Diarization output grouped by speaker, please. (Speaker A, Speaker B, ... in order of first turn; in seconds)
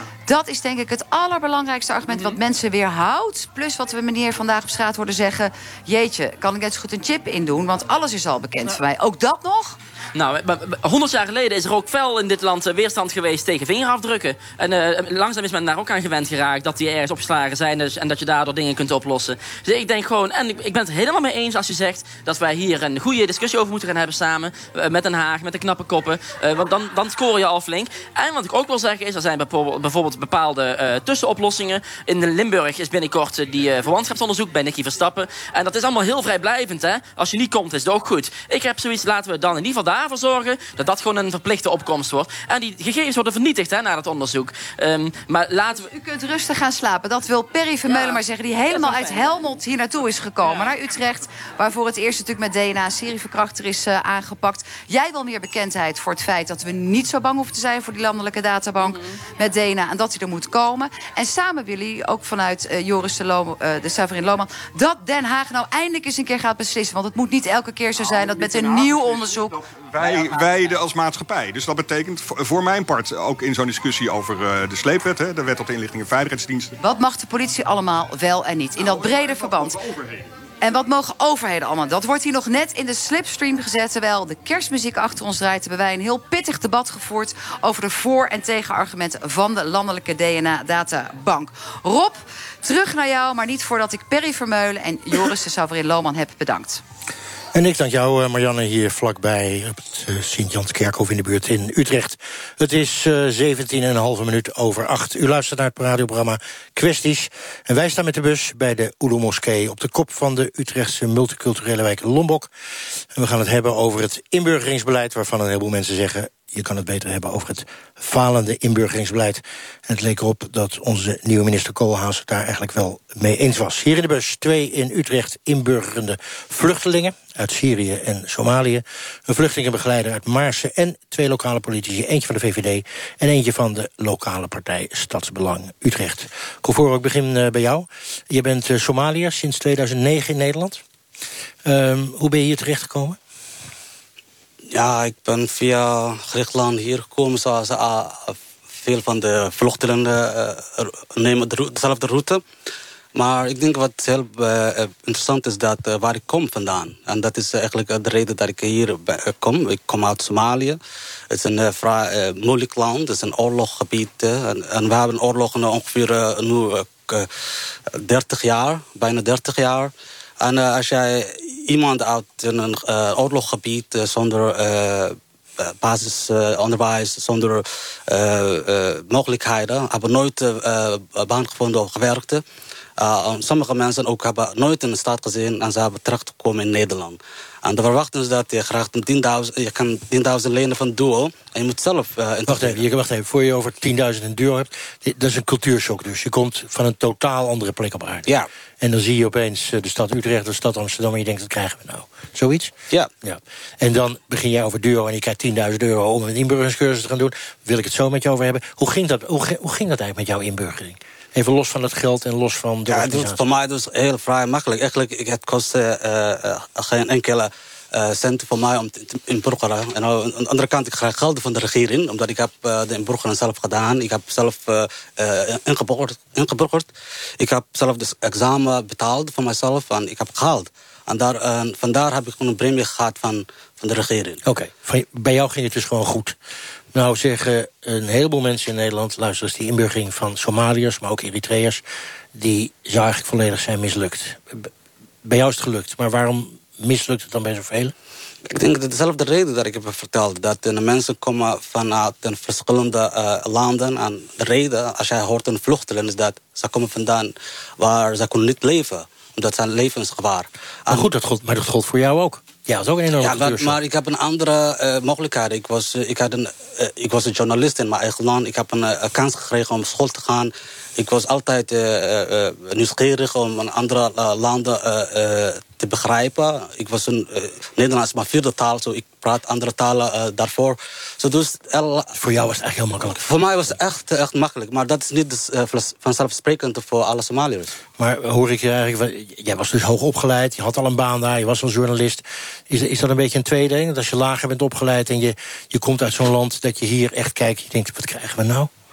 Speaker A: 0.3-9.8, 45.8-69.6, 76.8-79.8, 80.6-96.8
Speaker B: 10.1-45.9, 47.9-49.5, 50.4-50.7
Speaker C: 68.0-76.8, 78.8-80.3
Speaker D: 97.5-112.5, 113.1-140.8, 141.7-143.2, 192.5-198.3, 198.8-213.4, 234.4-236.4, 236.9-241.8, 242.3-244.7, 245.2-247.9, 260.9-263.8, 282.1-283.3, 288.0-298.7
Speaker E: 144.7-152.4, 153.2-160.8, 161.3-167.3, 168.0-182.4, 183.0-192.8, 212.9-234.4, 248.5-261.1, 263.2-282.1, 283.2-287.7